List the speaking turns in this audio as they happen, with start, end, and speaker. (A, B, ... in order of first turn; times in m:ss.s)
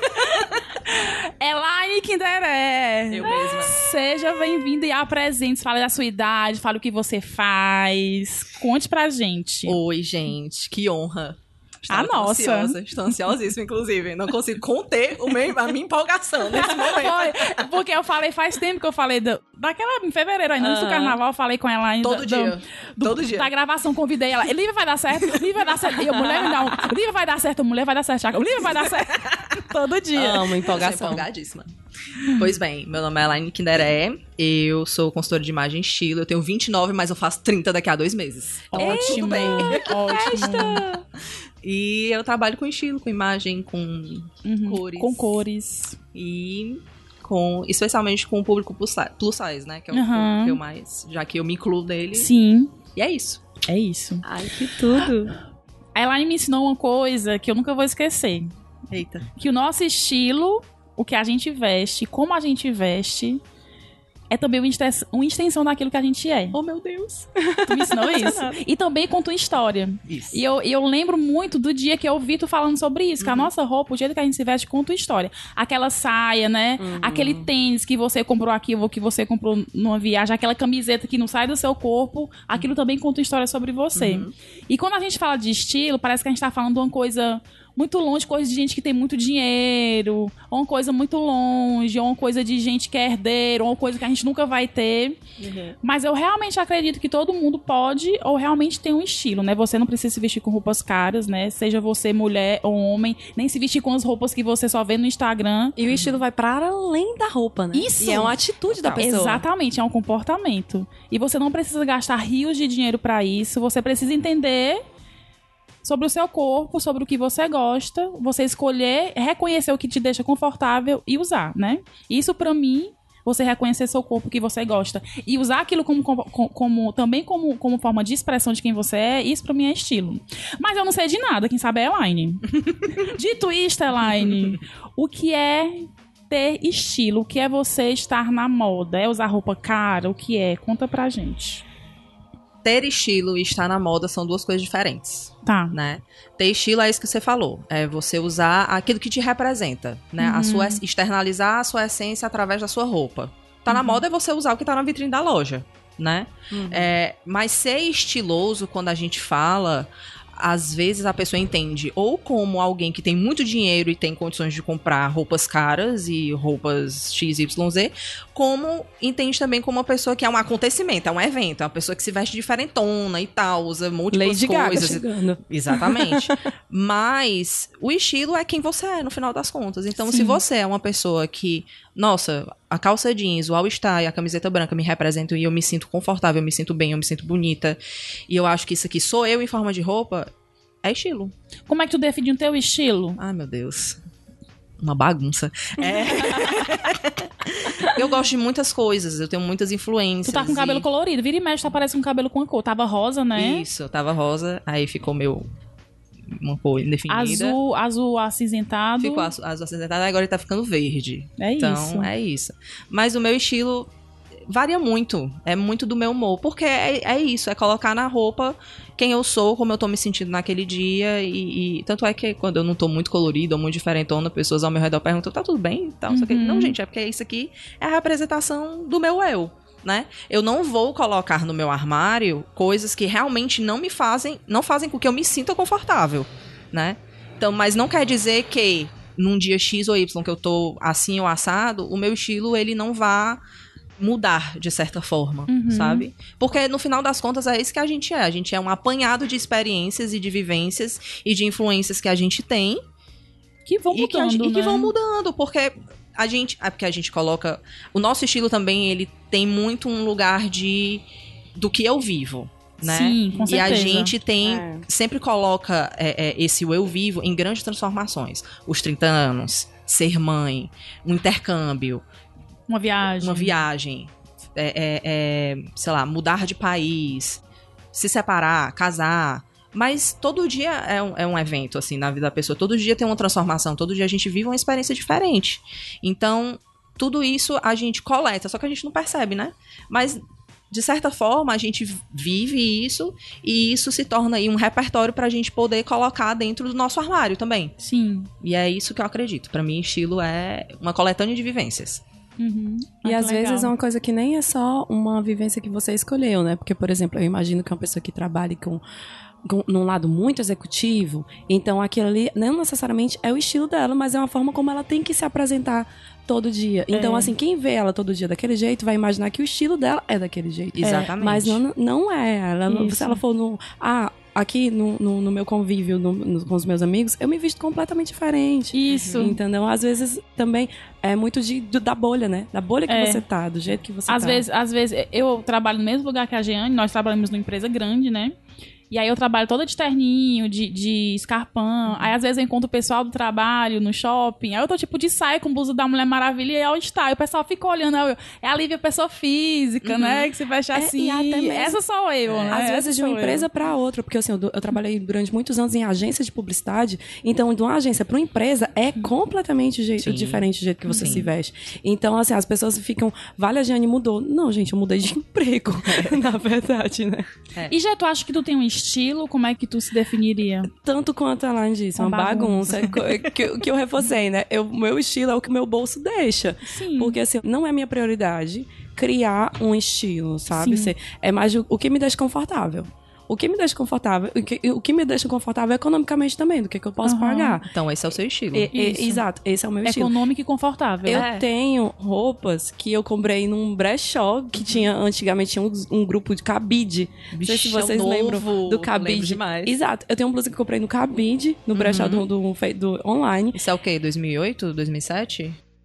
0:00.2-0:09.8 A
0:03.1-0:03.7 B
0:09.7-0:17.6 B
0:11.9-0:12.8 A
0:16.5-0:30.6 A
0:20.6-0:21.2 C
0:22.0-0:23.5 B
0:30.2-0:31.2 C
0:30.7-0:31.7 B
0:32.2-0:40.8 B
0:38.7-0:40.8 A
0:38.8-0:41.0 C
0:41.6-0:45.2 B
0:44.5-0:46.0 A
0:46.1-0:52.3 B
0:49.9-0:50.6 A
0:52.2-0:52.8 A
0:52.9-0:53.4 B
0:53.7-0:54.2 A
0:54.2-0:55.3 C
0:56.0-0:58.5 A
0:58.9-0:59.3 B
0:59.4-1:03.4 A
1:04.3-1:06.6 A
1:06.5-1:07.3 B
1:07.4-1:08.6 C
1:07.6-1:35.2 A
1:10.1-1:10.4 B
1:13.2-1:13.5 B
1:16.8-1:17.5 C
1:24.0-1:24.3 B
1:35.8-1:45.8 A
1:45.8-1:49.4 C
1:47.7-1:48.4 A
1:48.7-1:49.1 B
1:49.0-1:54.8 A
1:55.8-2:21.6 A
2:22.6-3:07.8 B
2:25.4-2:25.8 A
2:30.2-2:30.8 A
2:33.7-2:34.0 A
2:36.5-2:36.9 C
2:54.1-2:56.4 C
3:00.1-3:00.4 A
3:08.3-3:10.3 B
3:10.8-3:11.3 B
3:11.7-3:13.2 A
3:13.2-3:14.0 B
3:14.8-3:20.9 B
3:20.2-3:23.7 A
3:23.4-3:25.5 B
3:26.3-3:27.6 B
3:27.1-3:29.3 A
3:29.0-3:33.9 B
3:31.4-3:32.1 A
3:34.5-4:03.4 B
3:46.1-3:46.8 A
4:04.0-4:12.8 B
4:05.5-4:06.1 A
4:13.7-4:14.9 A
4:13.9-4:21.0 B
4:21.6-4:32.0 B
4:22.8-4:24.2 A
4:23.3-4:23.7 C
4:24.4-4:24.8 C
4:32.7-4:33.6 A
4:33.2-4:37.4 B
4:37.9-4:57.7 B
4:57.8-4:58.3 A
4:58.4-5:02.0 B
5:02.4-5:03.7 A
5:03.0-5:08.8 C
5:09.4-5:34.4 C
5:16.9-5:17.3 A
5:20.8-5:21.6 B
5:22.7-5:23.2 A
5:28.7-5:29.4 A
5:28.9-5:29.3 B
5:32.9-5:33.2 A
5:34.1-5:38.4 A
5:38.9-5:53.5 A
5:49.8-5:50.3 B
5:50.7-5:51.8 C
5:52.3-5:52.7 B
5:52.5-6:07.3 C
6:00.0-6:01.2 B
6:00.9-6:01.3 A
6:05.9-6:06.2 B
6:07.7-6:10.7 A
6:10.7-6:27.6 C
6:12.0-6:12.9 A
6:16.6-6:17.2 A
6:20.6-6:20.9 A
6:27.0-6:27.6 A
6:27.7-6:28.7 B
6:28.5-6:30.1 C
6:28.7-6:29.2 A
6:29.8-6:31.3 A
6:31.1-6:43.6 C
6:31.1-6:31.4 B
6:37.3-6:39.7 B
6:41.7-6:42.3 B
6:43.5-6:45.6 B